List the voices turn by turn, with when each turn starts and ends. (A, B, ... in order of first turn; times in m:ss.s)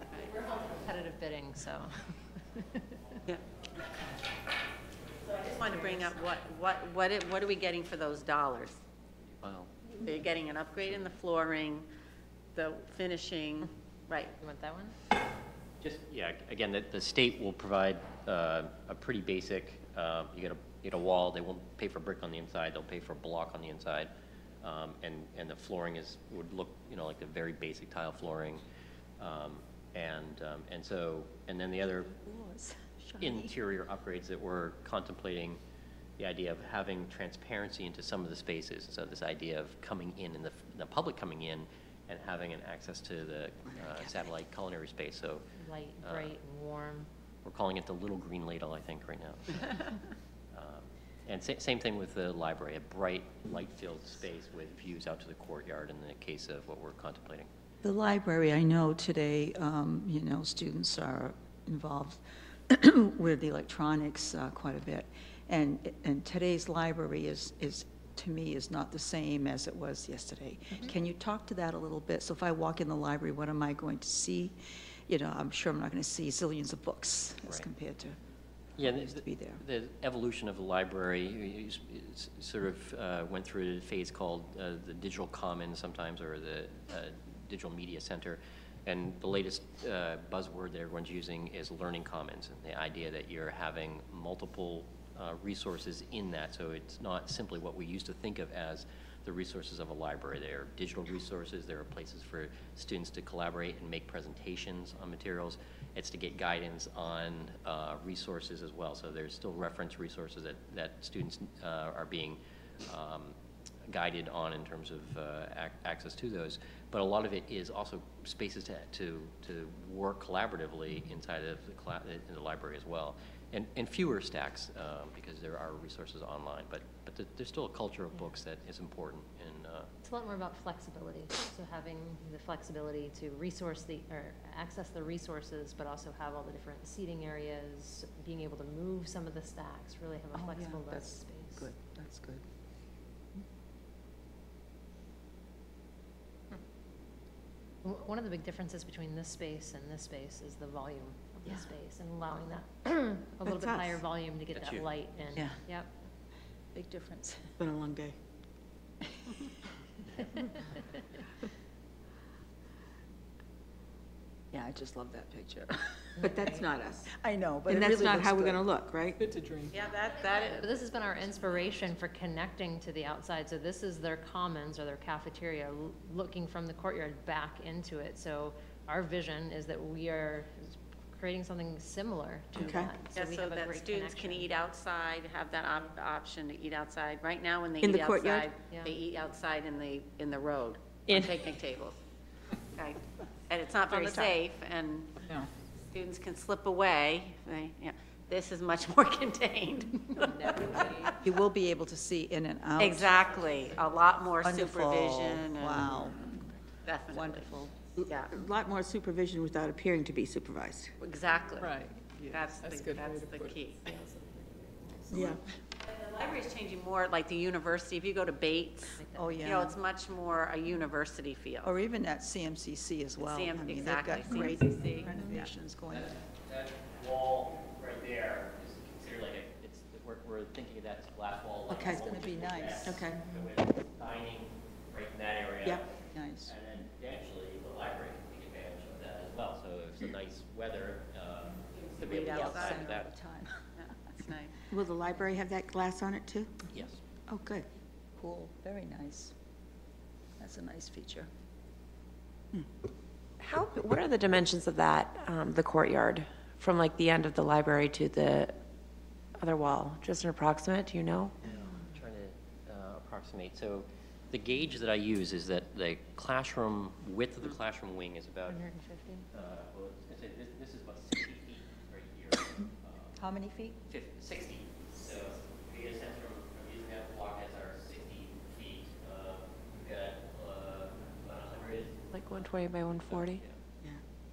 0:00.6-0:01.9 A
0:02.5-0:02.8 A
0:05.2-0:08.8 B
0:09.4-0:09.7 C
0:10.0-0:11.8 B
0:12.5-0:14.3 B
0:14.4-0:14.9 A
0:15.8-0:24.1 C
0:24.6-0:28.6 C
0:29.2-0:32.1 C
0:32.0-0:33.5 D
0:33.2-0:35.6 C
0:36.2-0:45.4 C
0:45.6-0:47.1 A
0:46.0-0:46.4 C
0:47.4-0:49.9 C
0:50.5-0:57.5 C
0:57.8-1:14.6 D
1:15.1-1:18.2 D
1:18.8-1:53.3 C
1:18.8-1:19.6 D
1:53.9-2:09.9 C
2:10.0-2:21.7 A
2:20.3-2:22.4 D
2:27.8-2:35.9 A
2:33.4-2:34.0 E
2:34.5-2:34.9 C
2:35.3-2:35.6 D
2:36.7-2:37.5 D
2:37.6-2:38.2 E
2:39.2-2:39.5 D
2:44.5-2:48.6 D
2:46.2-2:46.6 A
2:46.2-2:47.1 E
2:47.7-2:49.2 E
2:49.2-2:49.7 F
2:49.7-2:50.7 B
2:50.4-3:04.5 A
3:02.6-3:02.9 E
3:03.1-3:12.0 B
3:07.8-3:08.5 E
3:08.6-3:08.9 A
3:12.7-3:15.2 B
3:14.0-3:14.3 D
3:15.9-3:21.1 B
3:20.1-3:21.2 A
3:21.2-3:23.3 D
3:22.8-3:25.9 B
3:24.4-3:26.5 D
3:26.8-3:27.5 B
3:27.1-3:27.8 D
3:28.0-3:30.9 E
3:28.0-3:28.3 B
3:31.0-3:31.8 B
3:31.6-3:34.4 F
3:32.3-3:33.8 B
3:35.1-3:35.4 E
3:35.8-3:41.7 B
3:39.0-3:39.4 A
3:39.1-3:39.8 D
3:41.6-3:46.1 D
3:43.2-3:45.1 B
3:44.3-3:45.4 E
3:45.9-4:03.1 C
3:51.7-3:53.1 D
3:52.8-3:53.2 E
3:56.1-3:56.5 D
4:01.9-4:02.8 B
4:02.0-4:03.5 D
4:03.8-4:04.5 B
4:04.7-4:06.6 E
4:06.7-4:07.0 C
4:07.3-4:07.6 E
4:08.2-4:09.3 D
4:10.4-4:11.3 D
4:13.4-4:18.6 G
4:19.4-4:21.3 G
4:21.4-4:28.6 C
4:28.4-4:29.3 A
4:29.3-4:33.1 C
4:33.2-4:33.8 D
4:33.9-4:43.6 C
4:42.1-4:43.4 G